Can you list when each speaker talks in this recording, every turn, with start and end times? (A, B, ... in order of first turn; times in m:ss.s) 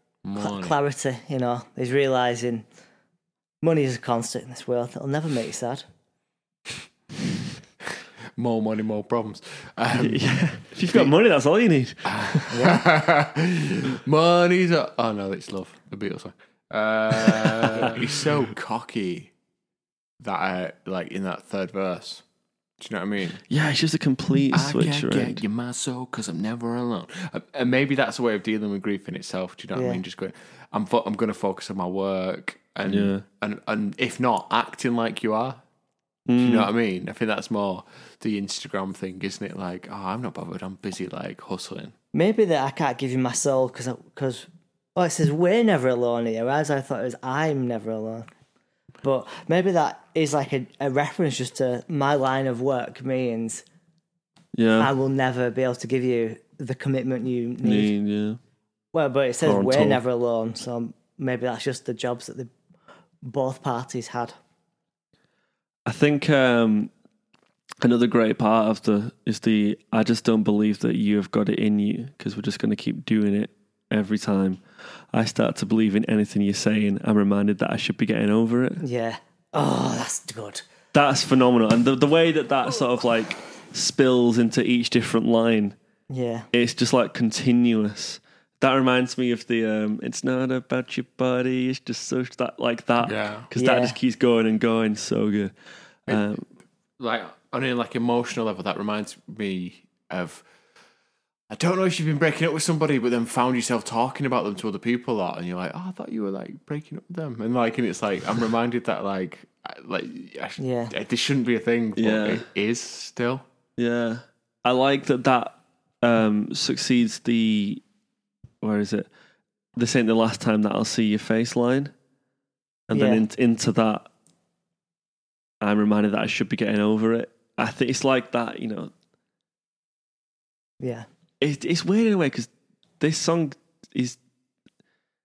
0:00.2-0:00.7 A
0:00.4-0:02.6 B
0:03.6-0:05.8 B
0:08.4-0:10.2 A
0:10.0-0:12.8 C
0:12.0-0:19.3 A
0:17.6-0:18.1 C
0:20.2-0:22.2 A
0:22.8-0:23.4 A
0:23.5-0:25.4 C
0:24.5-0:35.6 A
0:29.7-0:30.0 B
0:32.8-0:33.2 C
0:36.3-0:36.7 C
0:36.4-0:41.9 A
0:42.1-0:48.3 B
0:49.0-0:53.6 B
0:54.5-0:54.9 C
0:54.8-0:57.9 B
0:57.6-0:58.4 C
0:58.9-1:02.5 B
0:59.4-1:00.0 C
1:03.2-1:04.4 B
1:05.9-1:06.9 C
1:07.8-1:14.6 C
1:15.1-1:18.8 C
1:18.8-1:20.6 B
1:20.9-1:25.8 C
1:26.1-1:26.5 B
1:26.5-1:35.5 C
1:33.0-1:33.5 A
1:33.6-1:34.0 B
1:36.1-1:36.4 C
1:37.0-1:40.4 A
1:41.5-1:53.4 A
1:50.6-1:50.9 B
1:52.0-1:52.5 C
1:53.8-1:57.8 C
1:58.6-1:59.1 C
1:59.8-2:01.9 C
2:02.9-2:04.1 C
2:02.9-2:03.2 B
2:05.6-2:08.9 C
2:10.8-2:11.0 B
2:11.4-2:14.2 C